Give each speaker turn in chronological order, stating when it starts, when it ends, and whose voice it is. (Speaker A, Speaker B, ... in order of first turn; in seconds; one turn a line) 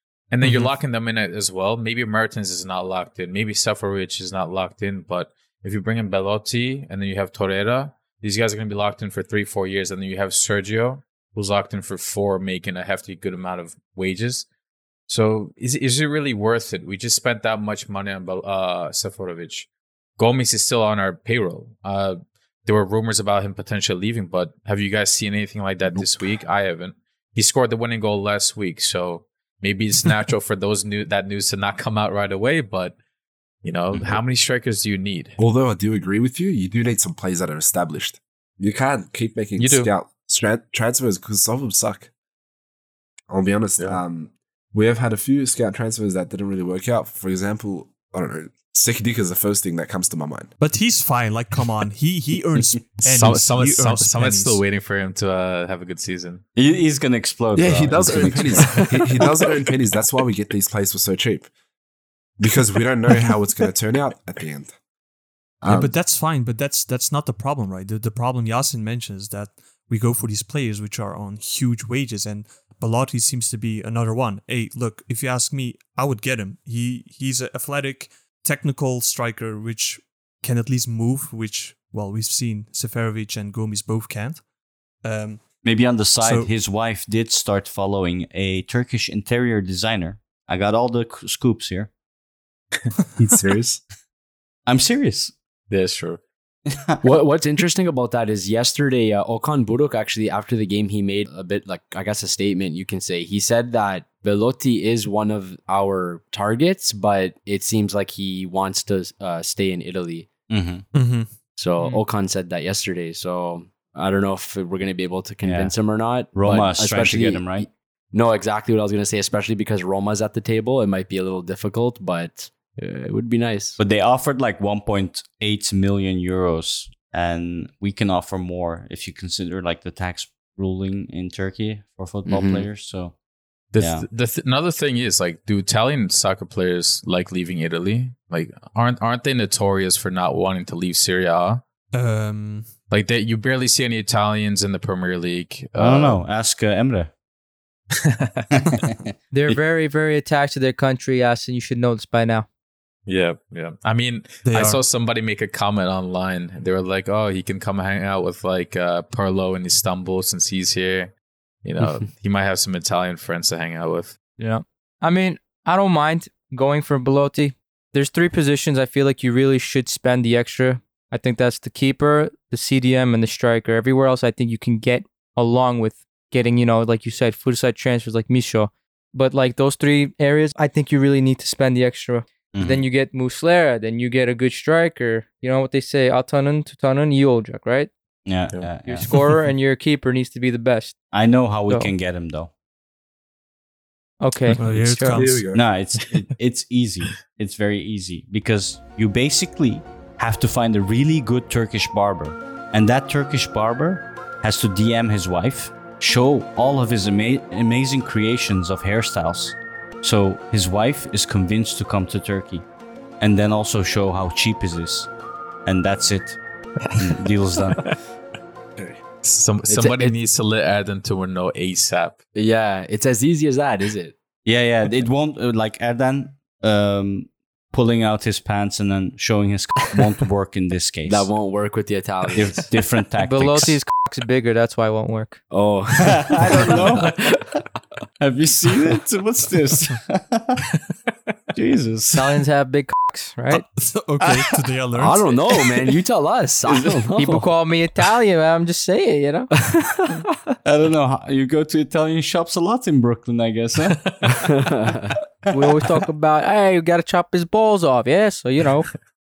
Speaker A: 0.3-14.5
Speaker B: 0.4-0.7
Speaker A: 15.1-33.0
Speaker A: 33.6-35.4
Speaker C: 35.4-42.1
Speaker A: 39.6-39.9
Speaker C: 43.3-50.5
Speaker B: 50.6-54.6
Speaker A: 53.2-56.4
Speaker D: 56.5-58.8
Speaker C: 57.6-61.5
Speaker C: 62.4-64.7
Speaker C: 65.6-65.9
Speaker B: 65.7-84.4
Speaker B: 85.0-85.5
Speaker D: 85.6-91.9
Speaker B: 86.1-86.5
Speaker C: 93.2-93.8
Speaker D: 94.7-95.3
Speaker A: 95.7-96.2
Speaker D: 96.7-97.0
Speaker E: 97.0-110.3
Speaker D: 110.5-110.8
Speaker B: 110.9-111.4
Speaker E: 111.6-123.8
Speaker D: 115.4-115.7
Speaker D: 116.3-117.7
Speaker D: 123.8-133.2
Speaker E: 132.3-132.7
Speaker A: 133.7-141.6
Speaker D: 133.8-134.1
Speaker B: 141.9-142.7
Speaker A: 142.9-146.2
Speaker D: 145.8-147.1
Speaker A: 147.9-148.5
Speaker D: 148.8-149.1
Speaker F: 149.3-152.5
Speaker A: 153.1-161.1
Speaker B: 154.4-154.8
Speaker A: 161.6-164.2
Speaker F: 164.4-187.9
Speaker D: 182.5-182.9
Speaker D: 188.3-189.2
Speaker F: 188.9-191.0
Speaker D: 191.1-192.5
Speaker F: 194.2-195.3
Speaker B: 194.6-195.5
Speaker C: 194.6-195.7
Speaker D: 195.5-212.7
Speaker D: 213.2-215.1
Speaker D: 215.7-216.4
Speaker A: 216.8-217.9
Speaker D: 217.0-217.9
Speaker A: 219.2-222.2
Speaker E: 219.7-220.2
Speaker E: 222.4-224.2
Speaker D: 224.4-231.3
Speaker E: 231.1-232.7
Speaker D: 232.3-233.8
Speaker F: 233.2-235.4
Speaker E: 235.5-237.5
Speaker D: 236.0-237.2
Speaker D: 238.2-240.6
Speaker D: 241.6-242.4
Speaker F: 242.1-243.6
Speaker B: 243.5-245.3
Speaker E: 244.9-247.4
Speaker D: 246.7-247.0
Speaker F: 247.2-249.5
Speaker E: 249.7-250.2
Speaker D: 250.7-254.2
Speaker E: 254.3-255.1
Speaker F: 255.5-258.9